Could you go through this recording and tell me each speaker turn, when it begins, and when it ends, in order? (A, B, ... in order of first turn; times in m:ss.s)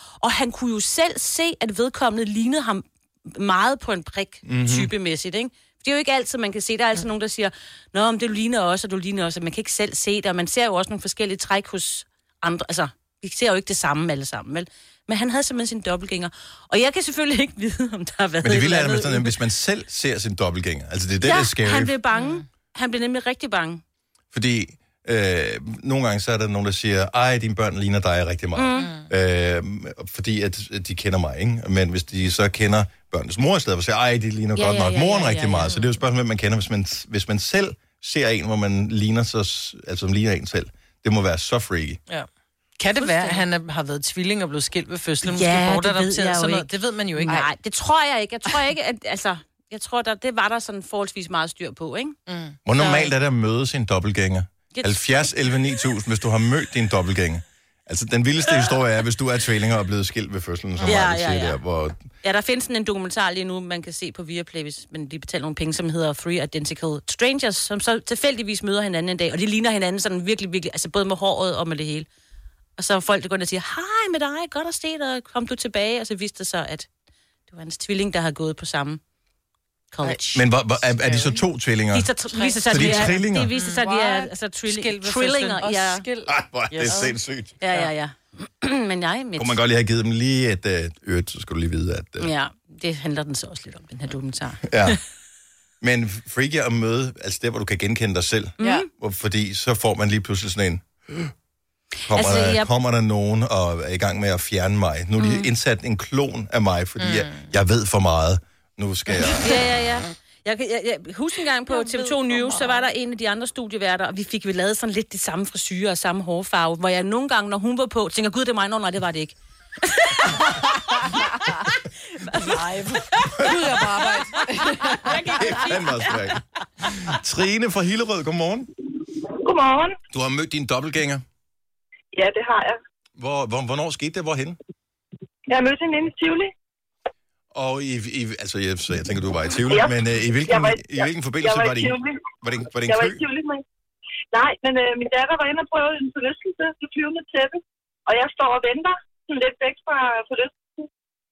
0:00.2-0:19.3 A
0:04.4-0:04.9 B
0:18.4-0:21.9 B
0:21.2-0:23.8 A
0:22.1-0:22.4 C
0:24.3-0:42.0 B
0:28.6-0:28.9 A
0:34.6-0:35.8 A
0:42.8-0:47.4 C
0:43.0-0:43.4 A
0:45.2-0:46.7 A
0:47.2-0:52.2 A
0:52.3-0:52.6 C
0:52.6-1:02.0 B
0:52.8-0:53.1 A
0:54.7-0:55.0 A
1:00.8-1:01.6 A
1:02.2-1:12.1 A
1:12.8-1:16.9 A
1:17.5-1:19.0 A
1:19.9-1:20.4 A
1:20.3-1:22.1 B
1:20.9-1:21.4 D
1:21.9-1:26.0 A
1:22.3-1:23.9 C
1:22.6-1:23.5 B
1:23.8-1:24.2 D
1:24.6-1:27.1 C
1:26.3-1:27.5 B
1:27.6-1:29.6 A
1:29.4-1:32.3 B
1:32.2-1:34.9 A
1:34.7-1:35.0 B
1:35.8-1:41.3 B
1:38.6-1:38.9 A
1:42.1-1:49.6 B
1:42.1-1:42.7 A
1:45.2-1:45.5 A
1:47.0-1:47.4 C
1:49.3-2:00.3 A
1:51.7-1:52.8 D
2:02.4-2:03.0 C
2:03.4-2:03.7 B
2:03.4-2:05.6 D
2:05.2-2:05.8 A
2:05.3-2:08.7 B
2:09.4-2:10.0 E
2:10.1-2:11.2 B
2:12.1-2:12.8 E
2:13.2-2:14.6 B
2:15.5-2:16.5 E
2:17.5-2:23.2 B
2:20.4-2:22.3 E
2:22.8-2:23.6 E
2:24.3-2:30.8 E